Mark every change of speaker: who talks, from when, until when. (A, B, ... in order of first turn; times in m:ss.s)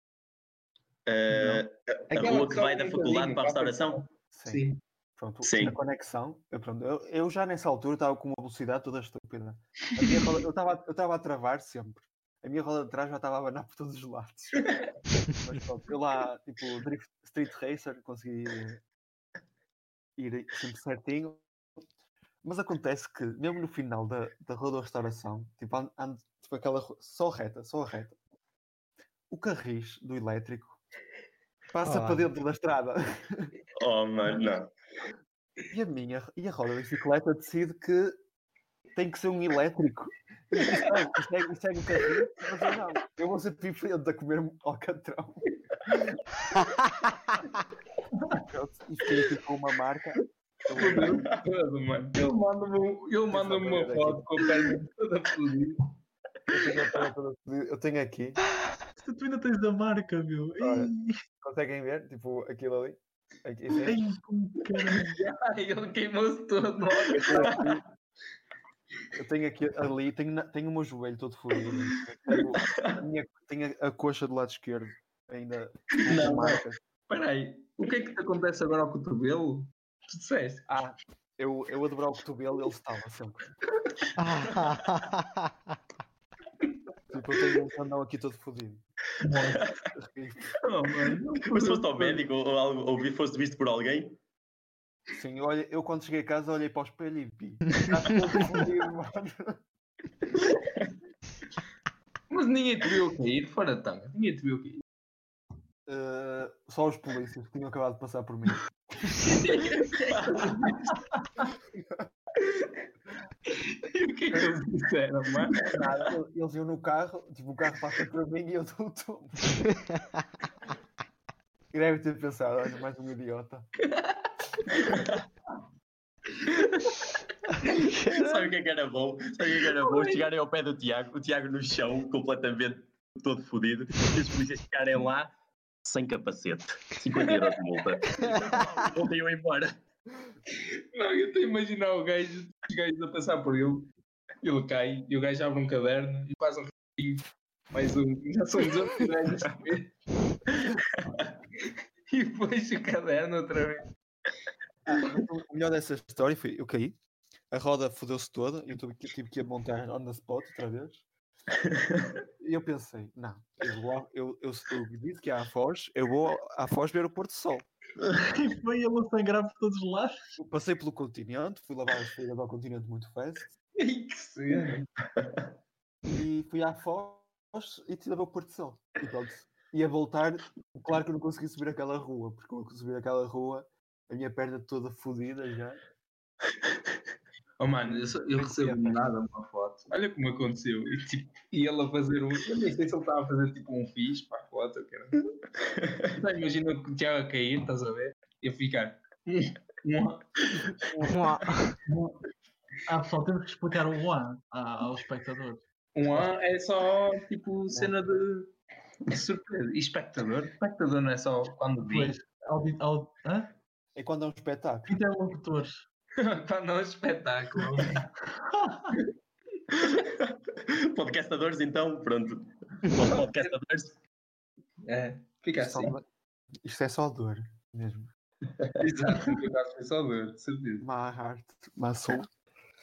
0:01.1-0:04.0 A
0:01.3-0:02.4 B
0:02.1-0:04.8 C
0:04.3-0:04.6 B
0:05.2-0:14.8 B
0:05.4-0:05.8 A
0:15.4-0:18.8 B
0:20.2-0:21.4 B
0:22.4-0:28.2 B
0:29.3-0:30.8 B
0:31.7-0:33.5 B
0:31.8-0:32.2 D
0:33.8-0:34.7 A
0:35.7-0:38.2 B
0:39.0-0:46.0 B
0:48.4-0:51.3 B
0:50.7-0:55.9 C
0:53.3-0:54.4 B
0:56.5-0:58.4 B
0:59.0-1:01.2 E
1:00.6-1:04.1 B
1:03.8-1:05.2 E
1:04.9-1:07.6 C
1:07.2-1:07.8 B
1:09.2-1:16.8 B
1:16.0-1:20.8 C
1:20.7-1:23.4 B
1:24.2-1:25.5 D
1:27.1-1:28.8 B
1:29.2-1:29.7 E
1:29.5-1:29.8 A
1:29.9-1:30.6 B
1:30.6-1:32.2 C
1:31.4-1:34.2 A
1:35.1-1:39.6 B
1:42.3-1:44.8 C
1:45.9-1:49.2 B
1:49.1-1:51.0 C
1:53.5-1:55.7 C
1:55.6-1:59.6 B
2:01.7-2:03.7 B
2:03.8-2:04.3 C
2:04.9-2:05.2 A
2:06.5-2:07.0 C
2:07.7-2:08.5 D
2:08.1-2:15.3 A
2:09.8-2:10.2 C
2:15.8-2:19.8 A
2:18.2-2:18.6 D
2:20.6-2:23.9 C
2:24.4-2:29.9 C
2:30.6-2:31.2 A
2:32.1-2:33.9 C
2:34.9-2:37.0 B
2:37.5-2:41.0 B
2:41.7-2:42.1 A
2:42.4-2:47.7 B
2:48.2-2:50.2 E
2:50.4-2:53.5 B
2:53.8-2:54.9 C
2:56.0-3:05.8 B
3:07.6-3:15.2 C
3:07.8-3:09.1 B
3:16.1-3:20.4 C
3:21.0-3:21.8 D
3:21.9-3:22.2 E
3:22.9-3:25.6 E
3:26.0-3:28.5 C
3:29.1-3:32.2 C
3:31.9-3:33.5 E
3:34.0-3:35.0 B
3:34.9-3:35.8 E
3:36.2-3:38.0 C
3:38.4-3:38.9 E
3:39.8-3:44.0 A
3:43.0-3:43.5 C
3:44.9-3:46.0 C
3:45.6-3:46.0 B
3:46.6-3:48.1 B
3:48.8-3:50.9 C
3:50.8-3:52.3 B